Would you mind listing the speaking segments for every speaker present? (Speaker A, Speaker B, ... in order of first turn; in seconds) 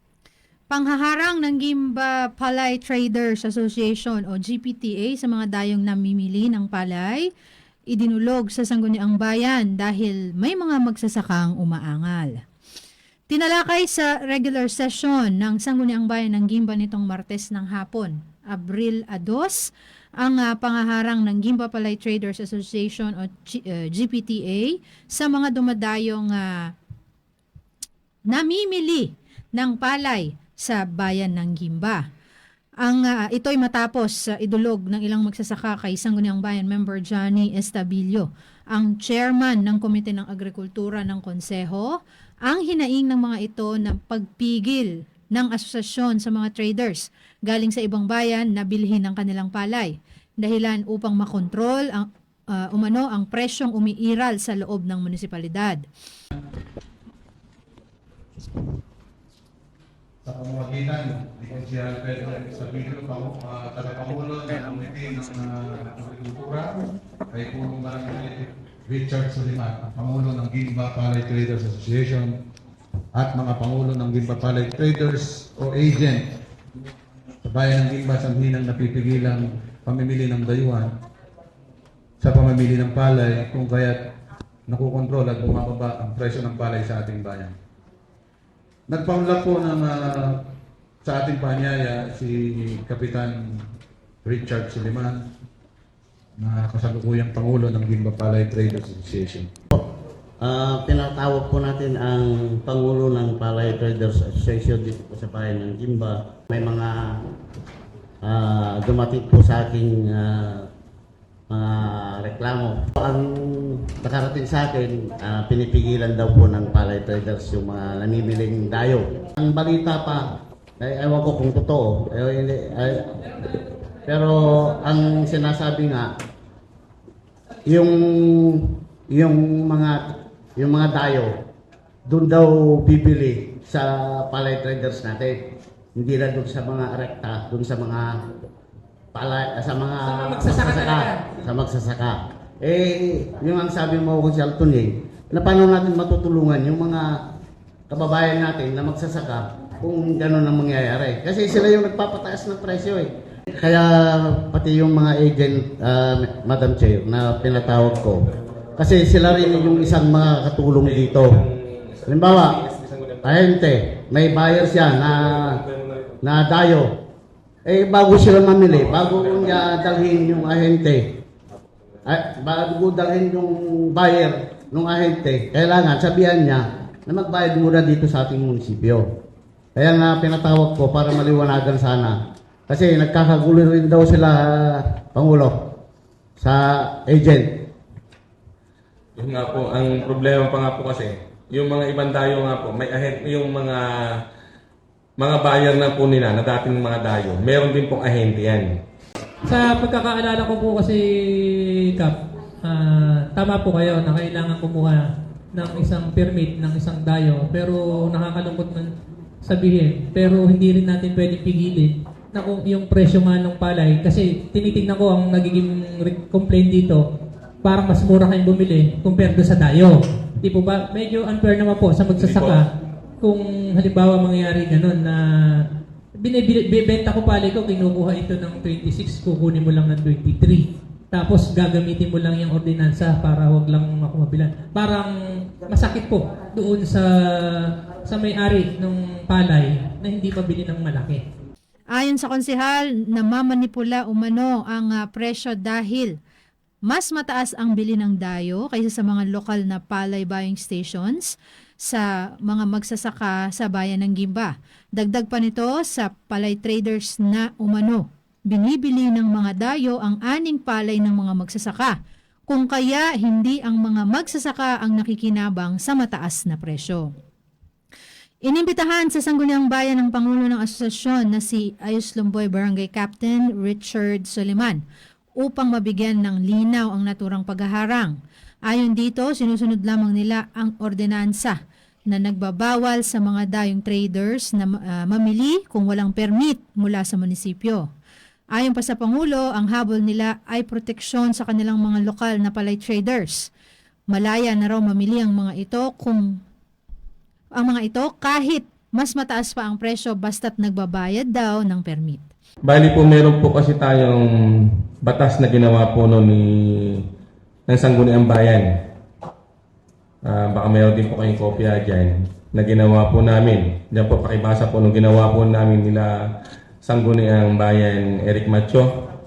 Speaker A: 0.7-7.3, 7.9-12.4, 13.3-19.7, 20.2-26.7, 28.3-32.0, 32.8-55.8, 241.9-246.1, 246.9-262.0, 262.5-267.1, 268.4-274.8, 275.4-278.2, 278.7-287.9, 288.6-293.5, 294.1-296.4, 297.6-302.3
Speaker B: 60.2-72.3, 73.1-76.4, 77.4-80.9, 82.2-84.1, 84.7-87.5, 88.9-90.5, 91.0-93.7, 94.2-95.3, 96.4-99.5
Speaker C: 100.4-107.2, 108.2-110.7, 111.5-123.2, 124.1-126.1, 127.7-131.3, 132.1-135.4, 135.9-138.3, 139.1-147.2, 147.9-161.4, 162.1-162.6, 163.2-165.6, 166.2-167.0, 167.6-171.2, 172.1-179.1, 179.8-185.8, 186.4-187.7
Speaker D: 140.1-141.2, 199.4-217.1, 217.6-225.7, 226.2-241.2
Speaker E: 159.3-160.0, 160.8-163.5, 165.1-166.2, 168.7-169.6, 189.2-194.2, 195.2-198.7, 222.2-222.6, 302.6-307.1, 307.7-308.8, 310.2-316.2, 316.8-319.1